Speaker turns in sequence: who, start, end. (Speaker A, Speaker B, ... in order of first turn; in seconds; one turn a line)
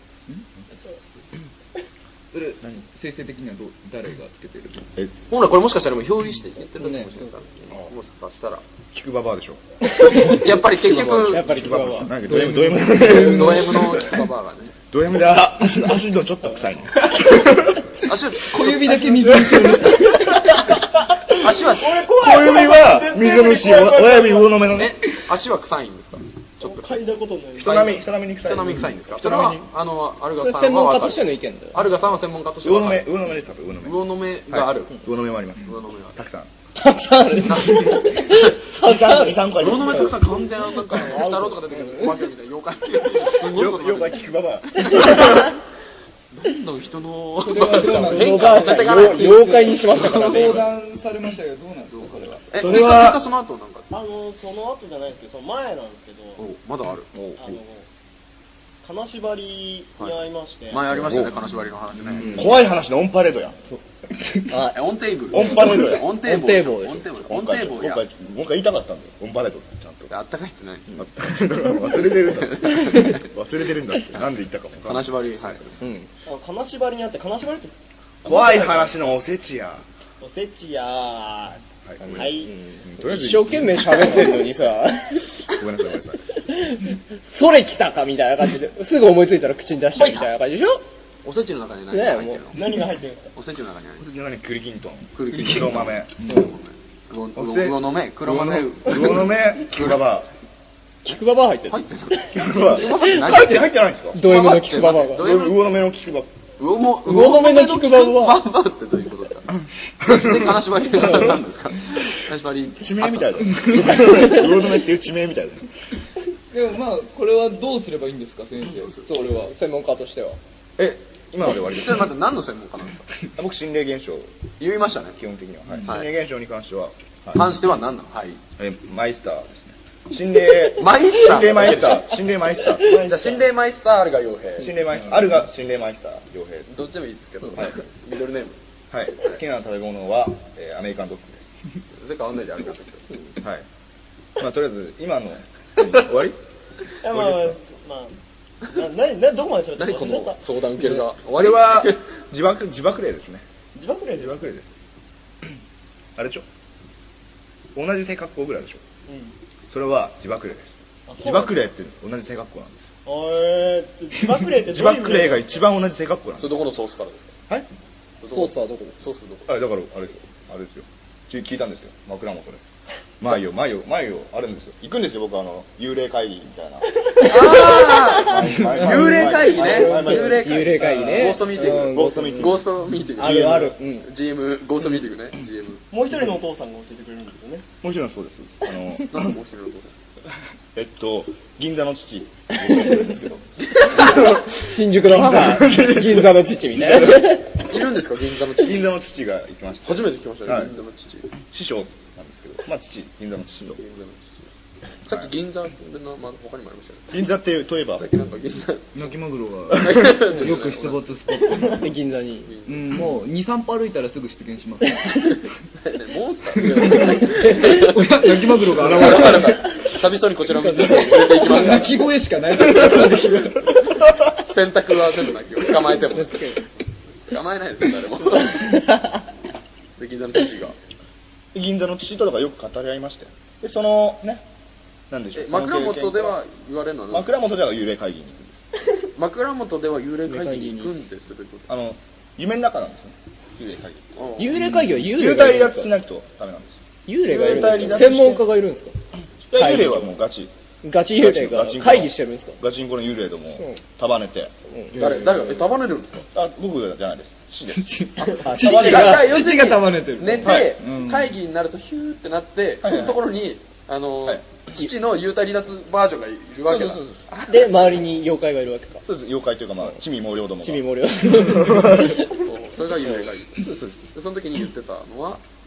Speaker A: 2.3-4.9
Speaker B: 5.3-8.6
Speaker C: 6.8-7.1
Speaker D: 8.9-9.6
Speaker C: 10.0-10.4
Speaker B: 10.1-11.5
Speaker D: 10.7-14.2
Speaker C: 11.2-12.2
Speaker A: 12.2-13.8
Speaker B: 13.0-14.8
Speaker D: 14.9-17.8
Speaker B: 18.0-19.8
Speaker A: 18.4-20.6
Speaker D: 19.2-20.2
Speaker B: 21.4-22.0
Speaker E: 21.7-24.7
Speaker D: 22.1-25.0
Speaker B: 24.7-27.0
Speaker E: 26.6-28.0
Speaker B: 27.6-33.1
Speaker D: 27.6-29.6
Speaker C: 30.4-31.8
Speaker D: 32.6-36.5
Speaker B: 33.8-35.0
Speaker B: 35.6-36.2
Speaker C: 36.8-40.1
Speaker B: 37.5-38.6
Speaker D: 38.8-40.3
Speaker B: 39.6-45.6
Speaker C: 40.9-42.1
Speaker D: 43.4-45.4
Speaker B: 46.3-50.7
Speaker A: 47.4-52.5
Speaker C: 48.0-50.6
Speaker B: 51.9-53.9
Speaker D: 52.6-53.2
Speaker E: 53.9-56.4
Speaker B: 56.4-57.1
Speaker D: 57.1-57.6
Speaker E: 57.4-57.9
Speaker E: 58.8-61.1
Speaker B: 60.0-62.6
Speaker D: 60.9-61.4
Speaker D: 62.1-63.6
Speaker C: 62.2-62.5
Speaker A: 64.1-64.6
Speaker C: 64.5-64.8
Speaker B: 64.7-68.0
Speaker D: 65.3-66.2
Speaker C: 66.1-67.1
Speaker D: 67.2-70.1
Speaker B: 70.1-70.9
Speaker D: 70.9-75.8
Speaker B: 71.9-73.3
Speaker B: 74.8-75.6
Speaker C: 75.8-76.1
Speaker E: 76.3-77.7
Speaker E: 78.2-79.0
Speaker D: 78.2-79.8
Speaker E: 80.2-82.5
Speaker D: 81.9-84.5
Speaker C: 83.0-85.3
Speaker D: 85.5-86.2
Speaker C: 86.5-90.8
Speaker B: 91.2-92.6
Speaker C: 91.9-92.4
Speaker E: 92.5-93.3
Speaker B: 93.3-94.1
Speaker D: 94.0-96.2
Speaker B: 95.2-100.0
Speaker A: 95.3-95.7
Speaker D: 97.3-100.3
Speaker C: 101.0-103.6
Speaker B: 101.7-105.7
Speaker D: 102.3-104.2
Speaker C: 104.1-105.2
Speaker D: 105.2-106.3
Speaker B: 106.6-109.5
Speaker C: 107.1-108.4
Speaker B: 110.0-113.4
Speaker D: 110.0-111.2
Speaker D: 112.8-115.7
Speaker A: 113.5-113.9
Speaker A: 116.5-119.5
Speaker B: 119.0-119.3
Speaker C: 119.1-120.4
Speaker D: 120.8-122.1
Speaker B: 121.6-123.2
Speaker D: 123.4-124.3
Speaker B: 124.6-125.2
Speaker D: 125.2-127.6
Speaker B: 127.3-128.4
Speaker D: 128.6-133.5
Speaker B: 130.7-132.2
Speaker B: 132.9-134.7
Speaker D: 134.6-136.8
Speaker B: 136.7-138.6
Speaker D: 137.5-137.8
Speaker D: 138.9-141.6
Speaker B: 141.9-143.1
Speaker D: 143.4-143.7
Speaker D: 144.4-146.3
Speaker B: 145.8-146.3
Speaker E: 147.0-150.4
Speaker D: 147.1-147.6
Speaker B: 149.8-152.1
Speaker D: 151.3-153.4
Speaker E: 153.8-154.5
Speaker D: 154.2-154.8
Speaker D: 156.2-156.4
Speaker D: 157.8-158.8
Speaker E: 159.1-159.3
Speaker D: 159.7-162.9
Speaker E: 161.1-161.7
Speaker E: 163.1-165.5
Speaker D: 164.6-166.7
Speaker B: 166.4-167.3
Speaker B: 168.2-169.6
Speaker C: 168.3-169.0
Speaker D: 169.5-172.6
Speaker D: 173.2-183.7
Speaker B: 177.2-185.8
Speaker C: 177.3-178.0
Speaker C: 178.8-182.6
Speaker E: 179.5-180.2
Speaker C: 183.2-184.1
Speaker E: 185.9-187.7
Speaker D: 187.8-189.4
Speaker B: 189.1-189.9
Speaker D: 190.7-194.4
Speaker B: 193.6-194.4
Speaker C: 194.2-197.5
Speaker D: 195.0-197.4
Speaker B: 197.0-198.9
Speaker D: 198.6-200.7
Speaker B: 199.8-201.3
Speaker D: 201.5-203.8
Speaker B: 203.7-204.5
Speaker B: 205.1-207.2
Speaker D: 205.1-205.3
Speaker D: 207.1-208.1
Speaker B: 208.0-209.1
Speaker A: 208.9-211.9
Speaker D: 209.7-210.3
Speaker B: 209.8-211.0
Speaker C: 211.8-212.5
Speaker B: 212.5-213.0
Speaker A: 212.7-215.4
Speaker B: 215.8-222.1
Speaker A: 216.6-219.7
Speaker C: 217.2-217.7
Speaker C: 219.0-219.5
Speaker C: 220.5-221.8
Speaker A: 221.3-223.8
Speaker B: 222.6-223.7
Speaker B: 224.4-226.6
Speaker C: 226.1-226.6
Speaker B: 227.2-228.8
Speaker C: 228.5-229.2
Speaker B: 230.0-230.8
Speaker D: 231.5-234.4
Speaker D: 235.1-236.4
Speaker B: 235.3-237.3
Speaker D: 237.1-238.6
Speaker B: 239.2-241.7
Speaker C: 240.3-240.9
Speaker D: 241.7-248.4
Speaker B: 244.2-244.5
Speaker C: 244.4-245.9
Speaker A: 244.6-244.9
Speaker C: 247.1-248.9
Speaker D: 249.5-250.5
Speaker C: 249.6-250.1
Speaker C: 250.8-252.6
Speaker D: 251.2-255.7
Speaker B: 255.0-256.3
Speaker D: 256.3-258.0
Speaker A: 257.8-261.3
Speaker B: 258.2-267.9
Speaker C: 258.4-259.3
Speaker D: 258.6-259.1
Speaker D: 260.4-260.8
Speaker D: 262.8-263.2
Speaker D: 266.7-267.2
Speaker C: 267.5-269.0
Speaker D: 269.0-272.2
Speaker C: 270.6-272.2
Speaker B: 272.3-275.4
Speaker D: 273.6-274.0